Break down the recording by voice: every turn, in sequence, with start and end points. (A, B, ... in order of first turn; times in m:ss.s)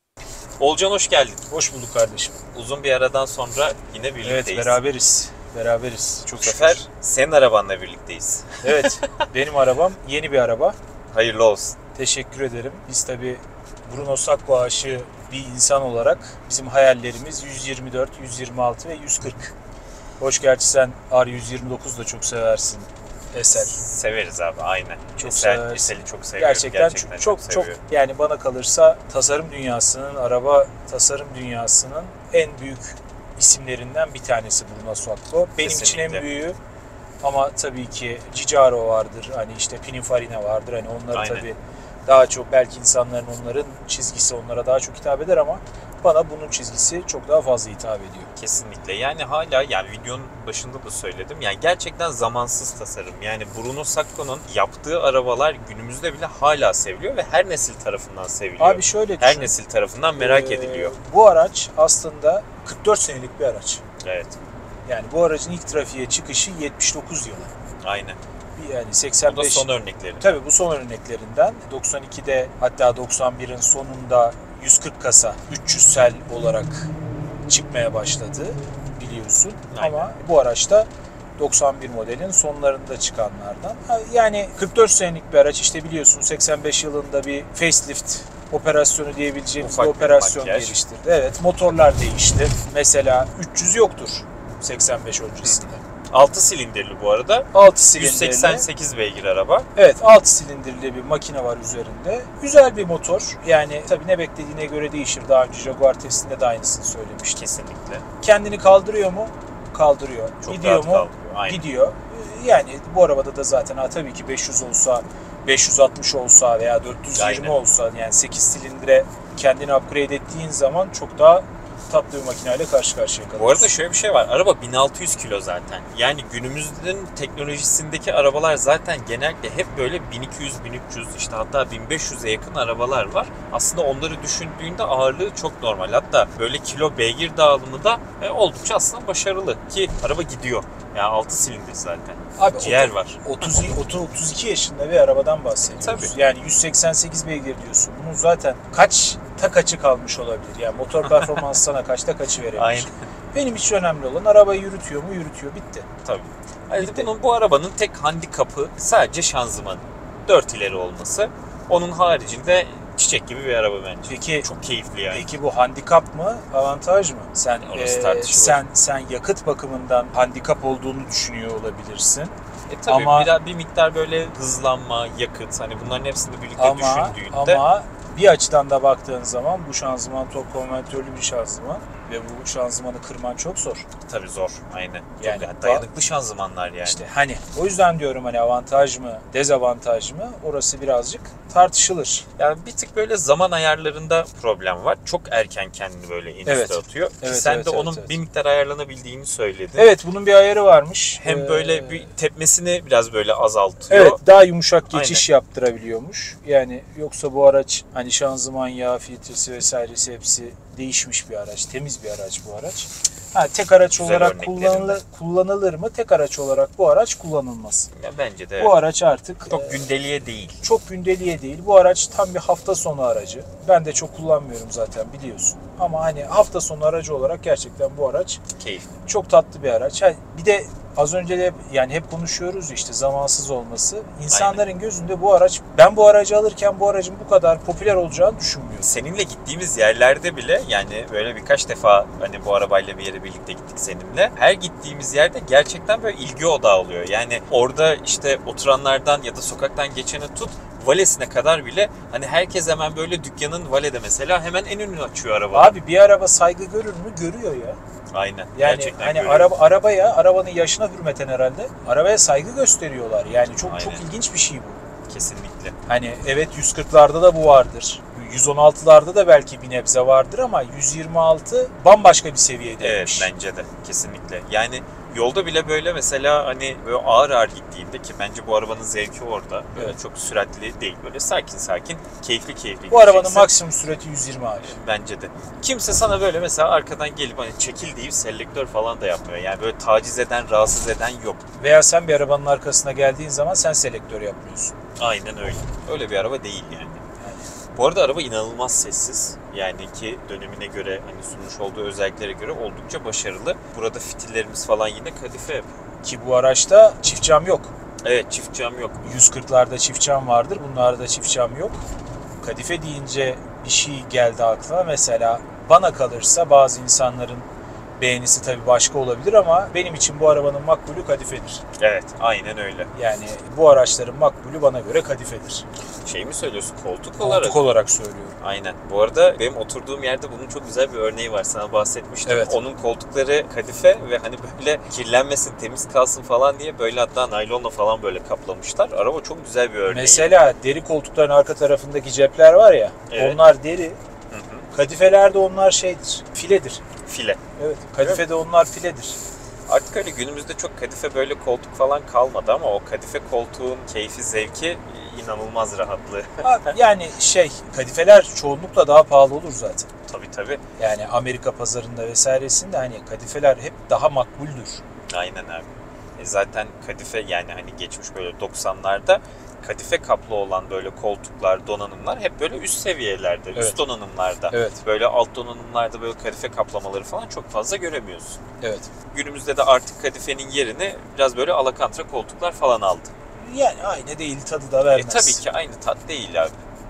0:00.6-0:01.4 A
0:01.5-0:02.4 B
0:02.5-0:04.8 A
0:04.2-0:06.8 B
0:06.4-0:09.2 A
0:08.6-0:10.8 B
0:11.1-0:11.8 A
0:11.9-0:19.5 B
0:20.2-0:23.8 B
0:23.5-0:27.8 A
0:25.2-0:36.6 B
0:35.6-0:36.3 A
0:37.2-0:48.3 B
0:41.1-0:41.5 A
0:48.3-1:00.9 A
0:58.6-0:59.5 B
1:00.2-1:03.8 B
1:04.0-1:04.4 A
1:04.8-1:07.5 B
1:07.8-1:08.2 A
1:08.6-1:09.7 B
1:09.2-1:10.2 A
1:10.2-1:16.9 B
1:17.5-1:35.8 B
1:19.7-1:20.2 A
1:29.6-1:30.8 A
1:35.4-1:39.7 A
1:37.5-1:38.7 B
1:39.7-1:47.4 B
1:47.3-1:48.0 A
1:48.2-2:03.7 B
1:50.4-1:51.6 A
1:57.1-1:57.6 A
2:03.3-2:23.2 A
2:22.4-2:35.9 B
2:25.6-2:26.1 A
2:32.5-2:32.9 A
2:36.0-2:45.3 A
2:36.7-2:37.1 B
2:44.1-2:44.5 B
2:45.1-2:53.3 B
2:47.6-2:48.6 A
2:52.7-2:57.6 A
2:56.6-3:03.9 B
3:04.0-3:07.0 A
3:05.2-3:05.9 B
3:06.8-3:12.2 B
3:12.4-3:19.9 A
3:16.4-3:18.2 B
3:19.8-3:22.0 B
3:21.2-3:24.2 A
3:23.9-3:37.9 B
3:24.9-3:25.2 A
3:34.0-3:35.0 A
3:37.9-3:38.7 A
3:38.6-3:39.9 B
3:39.5-3:40.6 A
3:40.6-3:48.4 B
3:48.6-3:49.0 A
3:49.1-3:58.8 B
3:54.3-3:54.6 A
3:58.8-4:15.8 A
4:15.5-4:17.8 B
4:18.1-4:19.5 A
4:18.5-4:24.8 B
4:23.6-4:24.1 A
4:25.1-4:25.8 A
4:25.9-4:33.3 B
4:32.8-4:43.5 A
4:42.9-4:44.8 B
4:44.6-4:51.4 A
4:51.6-4:54.8 B
4:55.0-4:57.0 A
4:57.2-4:57.5 B
4:57.7-5:05.7 A
5:06.0-5:07.7 B
5:08.0-5:09.0 A
5:09.0-5:11.8 B
5:12.4-5:21.6 B
5:21.8-5:22.9 A
5:22.9-5:25.6 B
5:26.0-5:27.6 A
5:27.2-5:28.4 B
5:28.4-5:40.3 A
5:32.2-5:32.6 B
5:39.9-5:44.0 B
5:43.1-5:43.4 A
5:44.3-5:44.7 A
5:44.7-5:46.8 B
5:47.0-5:47.4 A
5:47.6-5:49.2 B
5:49.7-5:56.7 A
5:56.4-5:59.9 B
6:00.1-6:00.6 A
6:00.8-6:04.8 B
6:05.1-6:18.4 A
6:14.5-6:14.8 B
6:18.6-6:18.9 B
6:19.1-6:23.1 A
6:23.4-6:25.4 B
6:24.9-6:26.6 A